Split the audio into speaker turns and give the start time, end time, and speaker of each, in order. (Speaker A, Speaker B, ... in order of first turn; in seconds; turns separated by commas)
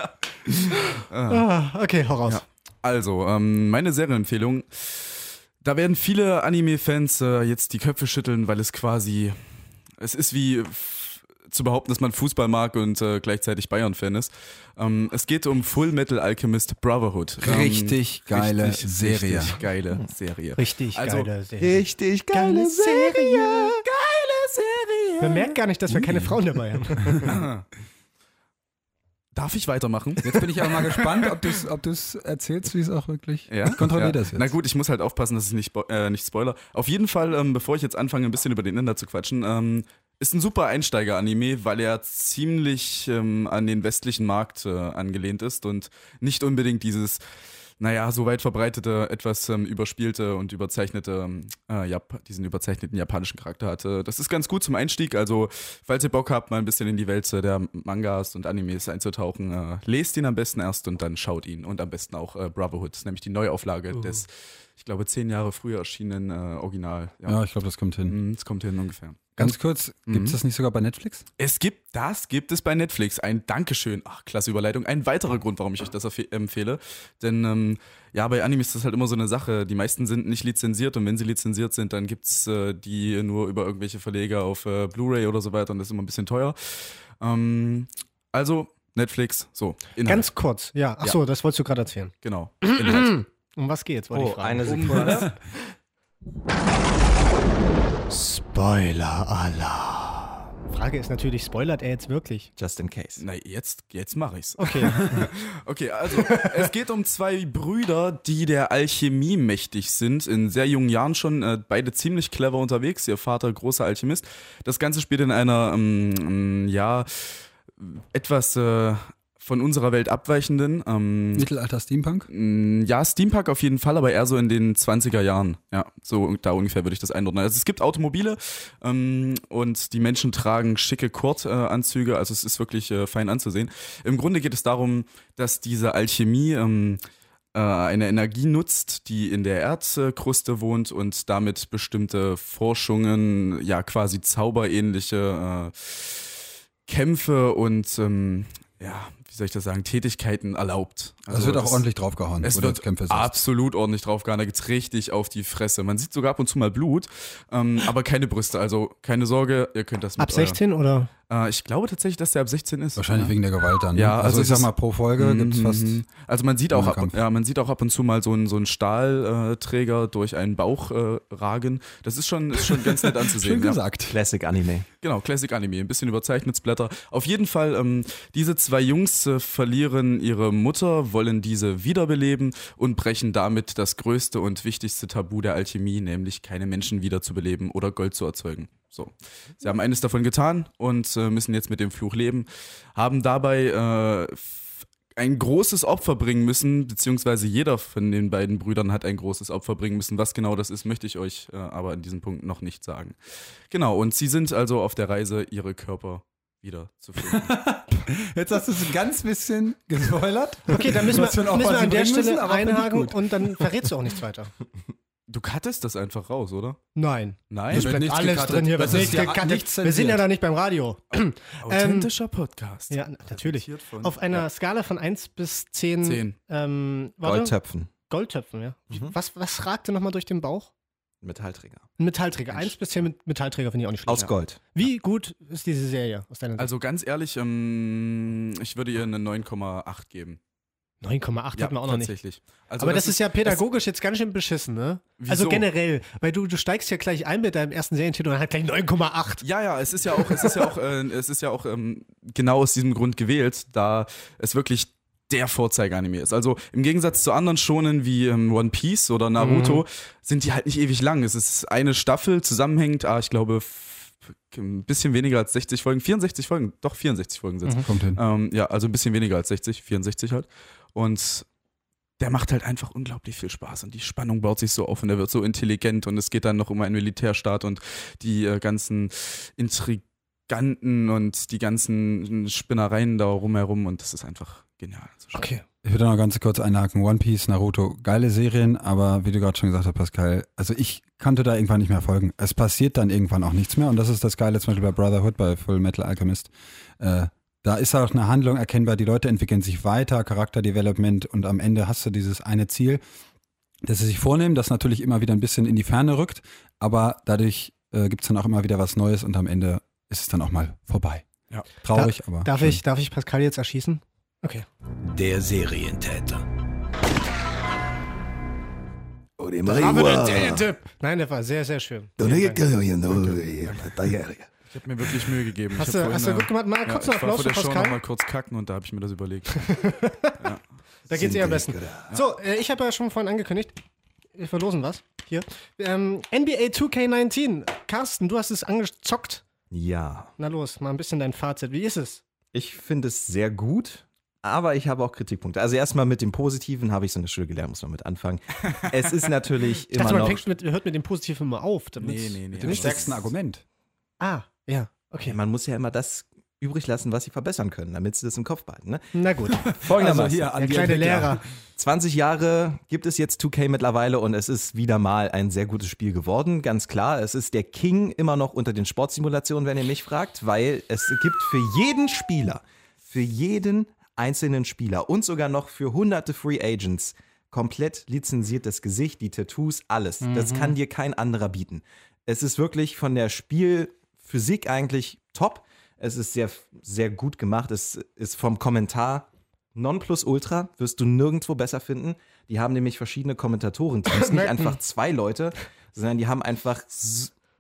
Speaker A: 0.8-2.4, Speaker B: 1.1-1.5, Speaker B: 2.3-9.4, Speaker B: 10.0-21.3, Speaker C: 17.4-19.6, Speaker A: 20.6-23.8, Speaker D: 21.6-25.6, Speaker A: 25.2-27.3, Speaker C: 25.9-26.3, Speaker C: 27.1-27.4, Speaker B: 27.2-27.6, Speaker B: 29.3-31.4, Speaker C: 30.2-34.5, Speaker B: 33.5-47.2, Speaker B: 47.8-67.4, Speaker C: 67.3-68.2, Speaker B: 68.1-69.5, Speaker C: 69.4-71.3, Speaker B: 70.1-70.4, Speaker B: 71.4-90.3, Speaker A: 90.1-95.3, Speaker B: 92.2-93.2, Speaker D: 94.1-95.3, Speaker B: 94.6-95.3, Speaker A: 98.1-102.5, Speaker D: 102.6-103.2, Speaker B: 103.2-121.5, Speaker A: 104.6-105.3, Speaker A: 106.1-106.7, Speaker C: 121.3-122.3, Speaker B: 122.3-137.0, Speaker B: 137.5-151.8, Speaker C: 151.3-153.4, Speaker B: 152.4-160.6, Speaker A: 160.2-161.1, Speaker B: 161.3-163.3, Speaker C: 163.0-166.0, Speaker B: 163.9-173.8, Speaker C: 166.7-167.2, Speaker C: 172.7-174.2, Speaker D: 174.1-174.9, Speaker B: 175.0-203.2, Speaker B: 203.7-207.6, Speaker C: 207.2-213.9, Speaker A: 210.7-214.5, Speaker B: 215.3-216.8, Speaker A: 216.9-222.1, Speaker B: 217.5-217.9, Speaker C: 217.7-220.2, Speaker B: 218.8-219.2, Speaker B: 221.6-224.4, Speaker A: 222.9-227.5, Speaker B: 226.0-226.3, Speaker D: 227.2-227.9, Speaker A: 228.1-230.7, Speaker D: 231.2-231.9, Speaker A: 232.0-236.7, Speaker D: 234.1-234.6, Speaker B: 236.6-240.4, Speaker A: 241.0-242.2, Speaker B: 241.6-243.6, Speaker A: 242.8-249.4, Speaker B: 245.2-245.7, Speaker B: 249.4-271.5, Speaker A: 259.4-259.8, Speaker C: 267.9-268.2, Speaker B: 272.2-285.4, Speaker A: 285.4-285.6, Speaker C: 285.8-303.0, Speaker C: 303.9-311.3, Speaker C: 311.8-312.8, Speaker A: 311.9-314.7, Speaker E: 315.0-316.4, Speaker E: 319.4-320.6, Speaker A: 319.7-322.6, Speaker E: 322.2-324.4, Speaker D: 323.1-324.3, Speaker B: 323.3-324.0, Speaker B: 324.7-330.6, Speaker A: 325.7-328.0, Speaker A: 329.6-330.4, Speaker A: 331.1-333.8, Speaker D: 331.1-332.1, Speaker A: 334.4-339.4, Speaker D: 339.7-340.3, Speaker A: 340.4-342.2, Speaker D: 342.5-350.4, Speaker A: 349.9-353.1, Speaker B: 352.0-353.2, Speaker C: 352.5-353.6, Speaker A: 354.2-355.4, Speaker D: 355.3-360.5, Speaker A: 359.1-359.8, Speaker C: 359.7-361.4, Speaker A: 360.5-361.4, Speaker D: 361.8-397.3, Speaker A: 380.2-380.8, Speaker A: 394.1-394.8